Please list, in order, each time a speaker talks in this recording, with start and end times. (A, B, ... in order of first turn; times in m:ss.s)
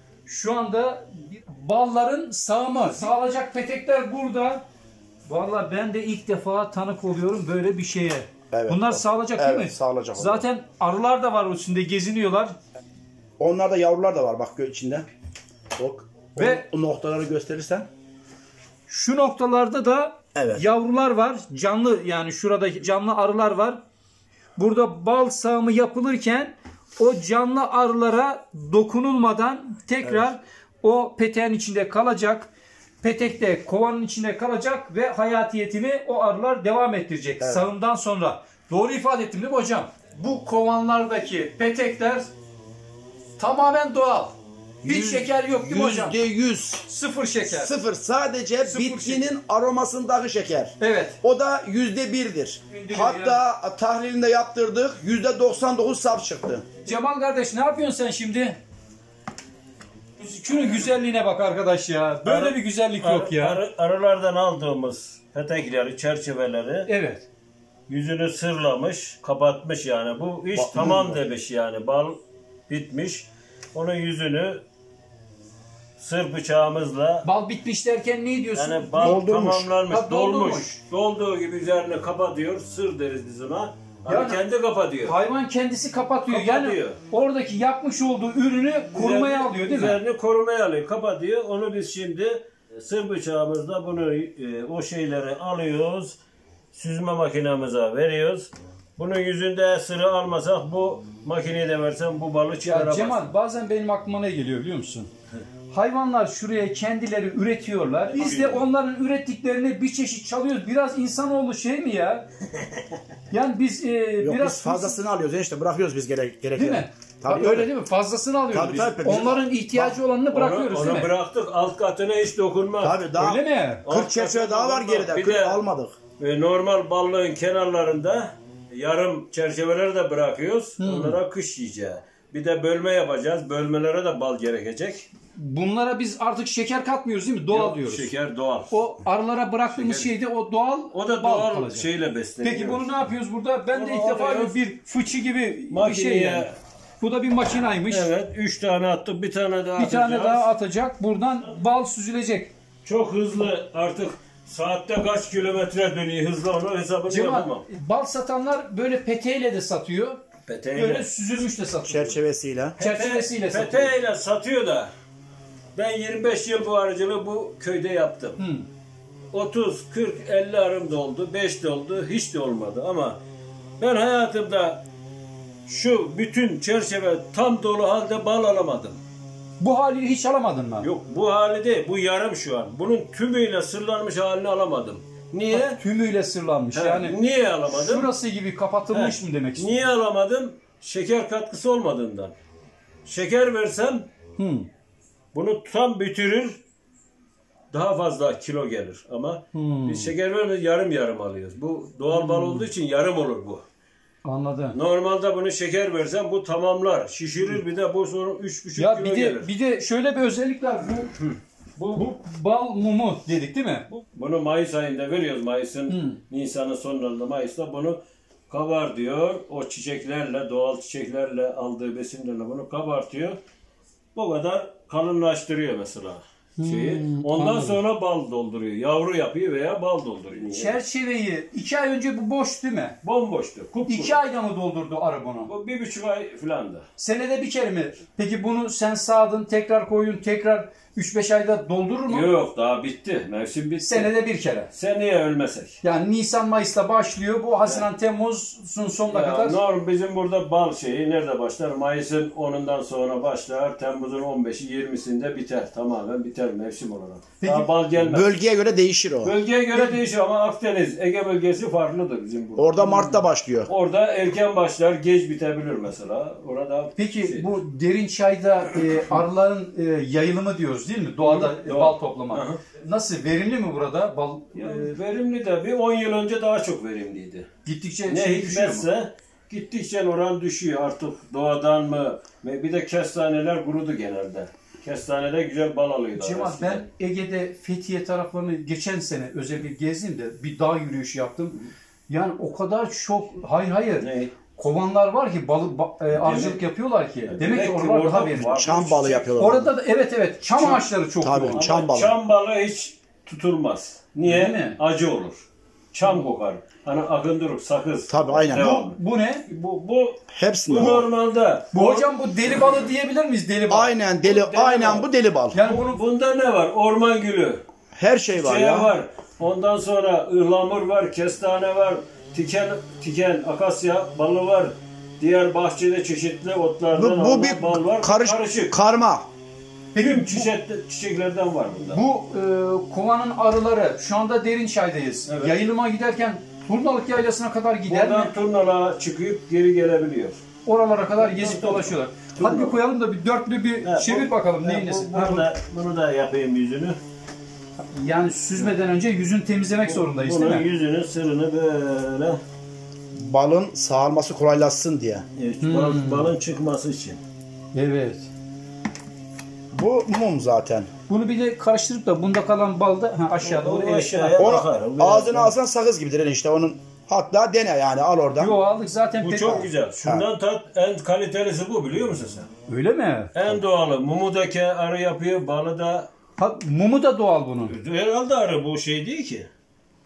0:00.2-0:04.6 A
0:05.3-0:12.5 A
0:08.5-0:10.4 B
0:13.4-0:15.0 B
0:15.8-0:17.9 B
0:16.4-0:16.6 A
0:18.9-0:23.8 A
0:20.4-0:20.6 B
0:24.6-0:32.5 A
0:30.0-0:30.3 B
0:33.0-0:42.3 A
0:37.4-0:37.6 B
0:43.4-0:46.2 A
0:44.8-0:46.8 B
0:46.8-0:47.7 A
0:47.5-0:56.6 B
0:48.6-0:49.3 A
0:50.8-0:51.2 A
0:52.7-0:53.4 A
0:56.8-0:58.6 A
1:00.2-1:03.6 A
1:02.2-1:06.9 C
1:06.9-1:07.2 A
1:07.9-1:14.6 C
1:10.5-1:11.2 B
1:16.0-1:17.2 C
1:17.2-1:19.2 A
1:18.5-1:25.2 C
1:19.0-1:19.7 B
1:19.9-1:20.8 A
1:24.1-1:24.4 A
1:25.0-1:30.0 A
1:26.3-1:27.0 C
1:28.9-1:36.2 C
1:36.7-1:43.3 C
1:42.6-1:45.1 A
1:45.7-1:52.2 A
1:48.1-1:48.6 C
1:53.3-1:55.0 A
1:54.2-1:57.7 B
1:56.6-2:01.1 A
1:58.5-2:00.0 B
2:00.3-2:03.0 C
2:02.8-2:05.9 B
2:03.2-2:03.8 A
2:03.8-2:05.6 C
2:06.2-2:15.1 C
2:10.8-2:11.2 A
2:15.3-2:18.1 A
2:17.5-2:18.7 C
2:18.7-2:21.9 A
2:19.7-2:20.1 C
2:20.9-2:22.9 C
2:22.4-2:26.5 A
2:23.7-2:24.6 C
2:25.7-2:26.6 C
2:27.0-2:28.1 A
2:27.9-2:30.5 C
2:29.8-2:32.5 A
2:32.8-2:37.6 C
2:37.1-2:40.2 A
2:40.4-2:41.1 C
2:40.7-2:42.2 A
2:41.8-2:42.8 B
2:42.8-2:44.9 C
2:42.8-2:43.9 A
2:45.8-2:48.4 C
2:48.4-2:48.6 A
2:49.3-2:53.2 C
2:53.8-2:54.8 C
2:55.7-2:59.0 C
2:59.6-3:00.9 A
3:00.8-3:05.8 C
3:05.5-3:07.2 A
3:06.7-3:08.1 C
3:07.7-3:09.8 A
3:08.9-3:12.3 C
3:13.0-3:14.1 C
3:14.4-3:14.7 A
3:15.3-3:16.6 C
3:17.7-3:23.6 C
3:19.5-3:20.1 A
3:22.1-3:22.6 A
3:24.2-3:24.8 A
3:24.7-3:29.5 C
3:28.8-3:31.1 A
3:31.2-3:32.1 C
3:31.9-3:33.9 A
3:33.9-3:38.0 C
3:35.9-3:36.2 A
3:38.5-3:43.4 C
3:44.1-3:50.8 C
3:46.6-3:47.8 A
3:50.5-3:53.0 A
3:53.0-3:54.2 C
3:53.9-3:55.5 A
3:55.5-3:56.8 C
3:57.0-4:02.3 A
4:02.1-4:04.1 C
4:03.8-4:04.7 A
4:04.7-4:05.8 C
4:05.8-4:09.6 A
4:09.1-4:18.3 C
4:17.4-4:17.7 A
4:18.0-4:19.3 B
4:19.2-4:23.0 C
4:19.7-4:20.0 A
4:22.6-4:23.7 B
4:22.8-4:23.2 A
4:23.7-4:27.6 C
4:27.0-4:34.9 A
4:31.2-4:32.6 C
4:34.5-4:37.5 C
4:37.6-4:38.8 A
4:38.1-4:46.8 C
4:46.1-4:58.6 A
4:54.0-4:54.4 C
4:56.1-4:56.6 C
4:57.3-4:59.5 C
4:58.5-4:59.7 B
4:59.4-5:01.7 A
5:00.6-5:02.1 B
5:01.5-5:05.4 C
5:04.2-5:04.8 A
5:05.9-5:12.1 C
5:08.1-5:08.7 B
5:08.5-5:09.4 A
5:10.3-5:11.1 B
5:11.7-5:13.9 A
5:13.7-5:15.6 B
5:14.2-5:15.1 C
5:15.5-5:16.0 A
5:15.6-5:17.6 C
5:17.9-5:18.9 B
5:18.3-5:28.7 C
5:26.9-5:29.3 B
5:29.9-5:30.5 A
5:30.0-5:32.0 C
5:31.9-5:38.3 A
5:35.3-5:35.6 C
5:37.9-5:40.4 C
5:40.6-5:45.5 A
5:41.1-5:42.8 C
5:43.8-5:47.0 C
5:47.8-5:50.6 A
5:49.8-5:52.4 C
5:53.1-5:55.2 B
5:55.4-5:57.2 C
5:55.6-5:56.3 A
5:57.7-5:58.3 A
5:59.7-6:00.9 B
6:01.1-6:04.6 A
6:03.4-6:05.5 C
6:04.4-6:08.5 B
6:08.4-6:09.7 A
6:09.2-6:12.5 C
6:12.7-6:13.3 A
6:13.3-6:16.1 C
6:16.4-6:17.7 A
6:17.7-6:19.5 C